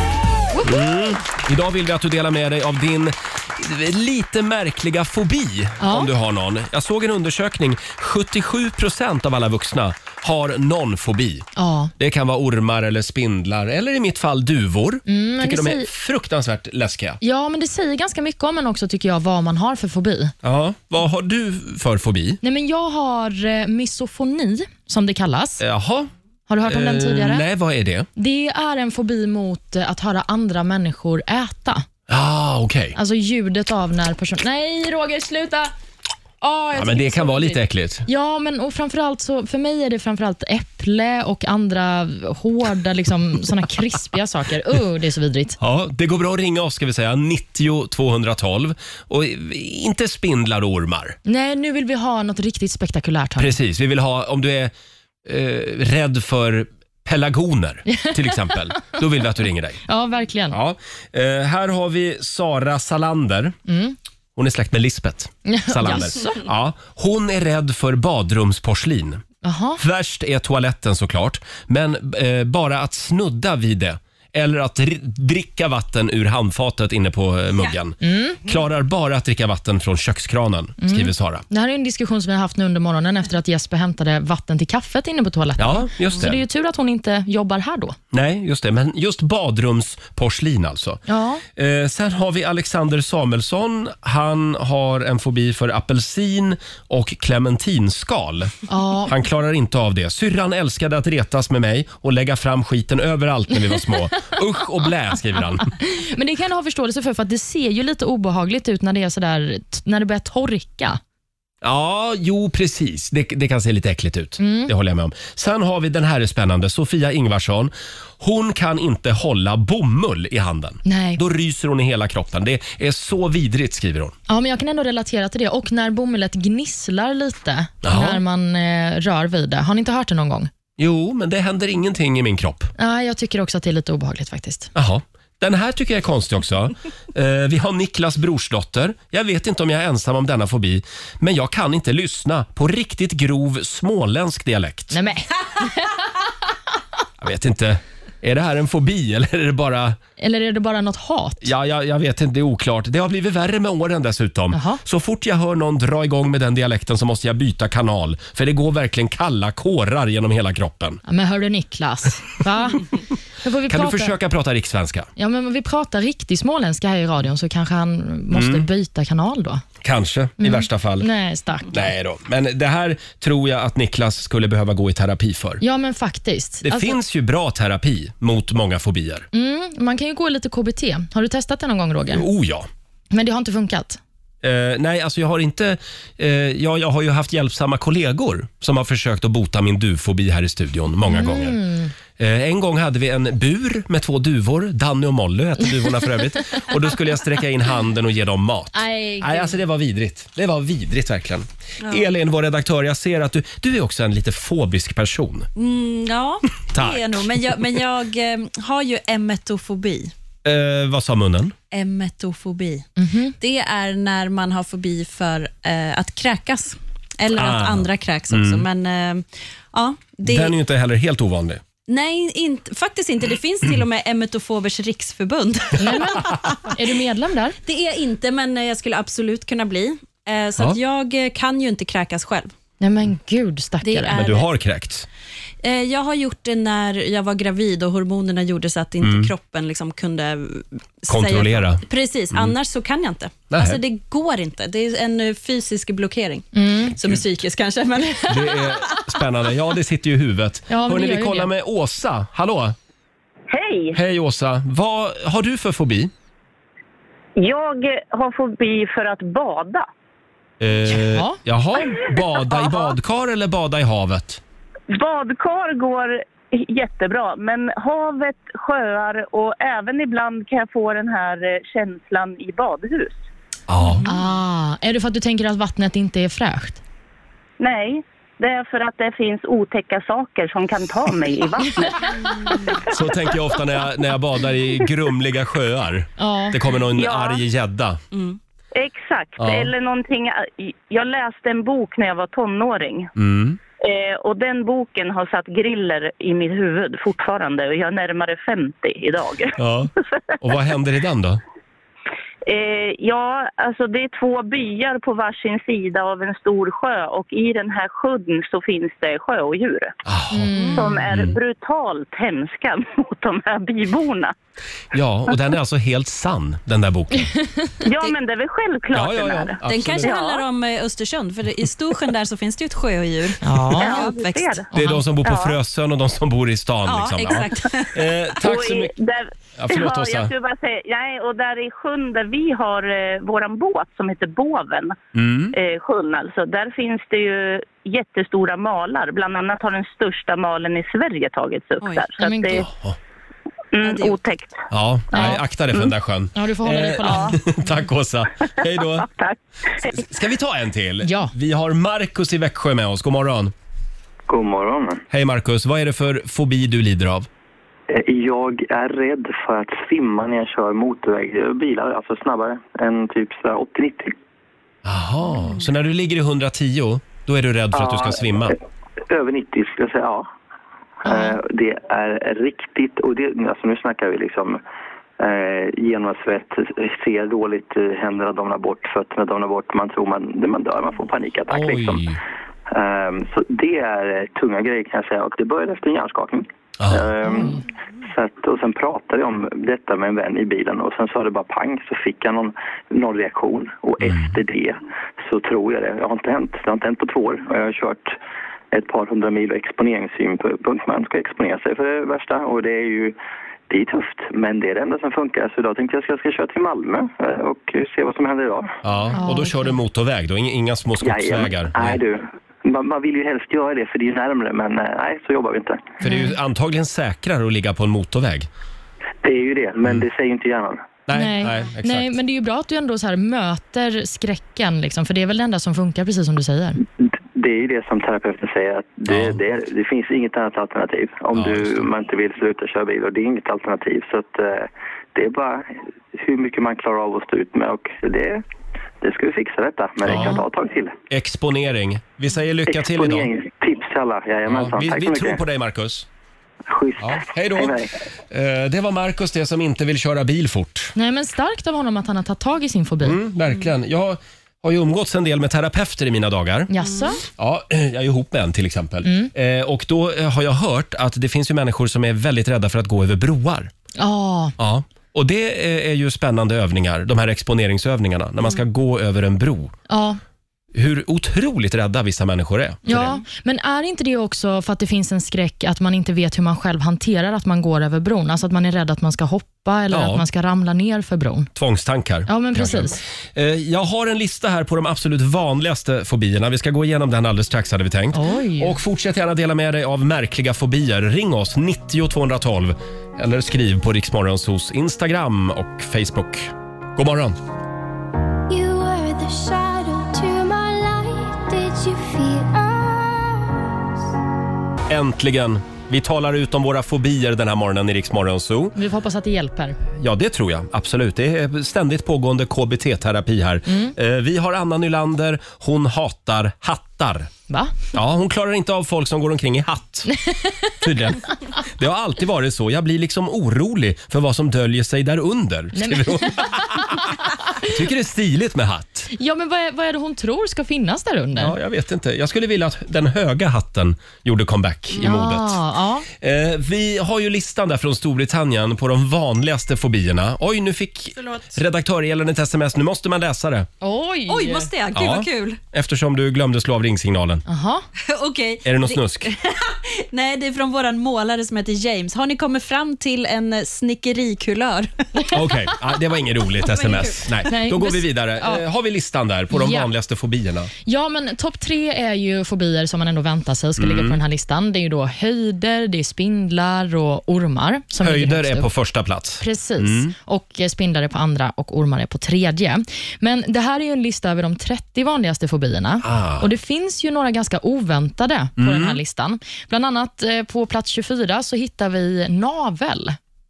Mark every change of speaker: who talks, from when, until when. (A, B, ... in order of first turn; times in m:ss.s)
0:00.5-0:01.0 A
0:00.6-0:11.5 B
0:05.8-0:06.1 A
0:11.6-0:11.9 A
0:12.0-0:17.2 B
0:15.1-0:15.9 A
0:17.2-0:20.3 A
0:20.4-0:22.4 B
0:22.4-0:25.6 A
0:25.6-0:26.1 B
0:26.5-0:27.4 A
0:26.6-0:28.1 B
0:28.2-0:31.8 A
0:32.1-0:33.0 B
0:32.9-0:35.7 A
0:36.4-0:45.6 A
0:36.7-0:38.0 B
0:45.6-0:51.2 B
0:51.2-0:53.6 A
0:53.4-0:54.7 B
0:55.2-0:59.8 B
0:57.9-0:58.5 A
0:59.9-1:00.6 A
1:00.5-1:03.6 B
1:03.7-1:04.0 A
1:04.4-1:09.2 B
1:05.4-1:06.4 A
1:09.4-1:09.8 A
1:09.8-1:21.4 B
1:18.0-1:18.4 A
1:20.8-1:28.0 A
1:25.6-1:26.4 B
1:28.1-1:31.0 B
1:31.1-1:31.4 A
1:31.6-1:38.5 B
1:38.7-1:39.1 A
1:39.1-1:45.6 B
1:45.7-1:51.0 A
1:51.6-2:04.2 B
1:54.4-1:54.7 A
2:00.8-2:01.2 A
2:04.3-2:10.5 A
2:07.8-2:08.2 B
2:10.8-2:12.7 B
2:12.8-2:14.7 A
2:14.7-2:25.0 B
2:24.9-2:26.0 A
2:27.2-2:30.0 B
2:30.2-2:31.5 A
2:31.4-2:41.0 B
2:34.5-2:34.8 A
2:41.0-2:44.2 A
2:43.7-2:45.1 B
2:45.2-2:49.6 A
2:48.3-2:48.7 B
2:49.8-2:51.1 B
2:50.4-2:51.9 A
2:51.7-2:55.6 B
2:55.6-2:57.0 A
2:56.6-2:59.2 B
2:59.3-3:02.2 A
3:02.1-3:02.7 B
3:03.1-3:04.0 A
3:04.4-3:11.6 B
3:11.0-3:11.9 A
3:12.2-3:25.5 B
3:18.7-3:19.6 A
3:21.8-3:22.1 C
3:25.6-3:30.1 C
3:26.7-3:27.8 B
3:30.4-3:31.5 B
3:31.7-3:32.9 C
3:33.0-3:33.3 A
3:33.4-3:40.5 C
3:37.3-3:38.6 B
3:40.2-3:41.6 B
3:41.9-3:46.4 C
3:45.8-3:47.6 A
3:47.6-3:52.5 C
3:52.8-3:54.2 A
3:53.8-3:54.5 C
3:54.1-3:55.1 B
3:55.6-4:09.0 C
3:59.0-3:59.3 B
4:01.1-4:02.5 B
4:03.5-4:03.8 B
4:06.5-4:06.9 A
4:08.3-4:12.7 B
4:10.7-4:11.5 A
4:13.5-4:14.0 D
4:13.9-4:16.1 B
4:17.4-4:19.9 D
4:20.6-4:24.4 B
4:20.9-4:21.4 A
4:24.9-4:33.2 D
4:33.7-4:34.1 B
4:34.0-4:36.8 A
4:37.6-4:42.8 D
4:42.9-4:48.0 B
4:46.2-4:46.6 A
4:47.0-4:47.4 D
4:48.7-4:53.1 D
4:49.4-4:49.7 B
4:53.2-4:53.6 B
4:53.8-4:59.6 D
4:59.6-5:01.4 B
5:02.4-5:09.9 D
5:10.0-5:10.6 B
5:10.3-5:11.0 A
5:10.5-5:11.0 C
5:10.8-5:14.3 D
5:11.1-5:11.4 B
5:14.9-5:17.3 B
5:17.6-5:17.8 A
5:17.8-5:20.4 D
5:18.9-5:20.1 B
5:19.6-5:24.6 C
5:23.4-5:24.1 A
5:23.8-5:24.7 D
5:24.7-5:25.0 A
5:24.7-5:28.9 B
5:25.2-5:25.6 D
5:26.8-5:28.1 C
5:28.4-5:35.0 D
5:29.6-5:30.3 B
5:35.1-5:35.5 B
5:35.5-5:42.7 D
5:41.8-5:42.1 C
5:42.2-5:42.7 A
5:42.6-5:43.0 B
5:43.7-5:44.6 D
5:43.8-5:44.2 C
5:44.7-5:49.1 B
5:45.1-5:45.4 A
5:46.3-5:47.5 A
5:47.0-5:47.3 D
5:49.0-5:49.9 D
5:49.8-5:53.5 B
5:51.0-5:51.3 A
5:54.3-5:55.0 E
5:55.1-5:57.3 B
5:57.9-6:04.1 E
6:04.8-6:08.6 B
6:07.7-6:08.5 E
6:09.0-6:10.2 E
6:11.0-6:14.6 E
6:15.2-6:22.1 E
6:21.5-6:22.2 B
6:22.7-6:38.1 E
6:26.8-6:27.5 B
6:27.3-6:27.6 A
6:34.0-6:34.3 B
6:38.7-6:43.1 E
6:43.7-6:48.8 E
6:48.8-6:52.0 B
6:49.1-6:49.8 A
6:51.0-6:56.0 E
6:56.0-6:56.4 A
6:56.0-6:58.5 B
6:59.2-7:01.0 E
7:01.1-7:02.1 B
7:01.1-7:06.8 A
7:07.0-7:18.4 E
7:09.1-7:09.4 B
7:11.3-7:11.9 B
7:19.0-7:21.0 E
7:20.0-7:20.4 B
7:21.1-7:23.3 B
7:22.7-7:25.4 E
7:24.4-7:26.1 B
7:26.7-7:27.9 E
7:27.0-7:27.8 B
7:28.3-7:30.9 B
7:31.0-7:33.2 A
7:33.0-7:36.7 B
7:36.7-7:37.2 A
7:37.4-7:43.7 B
7:39.0-7:39.3 A
7:44.0-7:44.5 A
7:44.6-7:49.7 B
7:49.9-7:50.2 A
7:50.7-7:53.1 B
7:52.8-8:01.5 A
7:59.9-8:00.2 B
8:01.6-8:17.4 B
8:02.3-8:03.0 A
8:08.1-8:08.8 A
8:18.5-8:23.7 F
8:24.9-8:28.7 B
8:28.7-8:29.8 A
8:30.0-8:37.3 B
8:33.7-8:33.9 A
8:37.5-8:37.7 A
8:37.9-8:40.1 B
8:40.8-8:49.1 B
8:45.8-8:47.0 A
8:49.1-8:51.5 A
8:51.4-8:55.6 B
8:55.0-8:56.1 A
8:56.1-9:03.7 B
9:03.8-9:04.7 A
9:04.3-9:05.6 C
9:04.9-9:07.4 B
9:07.5-9:07.8 A
9:08.1-9:15.1 C
9:08.6-9:09.3 B
9:15.3-9:20.7 B
9:16.6-9:17.4 C
9:17.5-9:18.6 A
9:19.5-9:19.9 A
9:20.8-9:28.7 A
9:23.8-9:24.2 B
9:28.0-9:30.1 B
9:29.4-9:43.2 A
9:36.0-9:36.5 B
9:38.6-9:39.0 B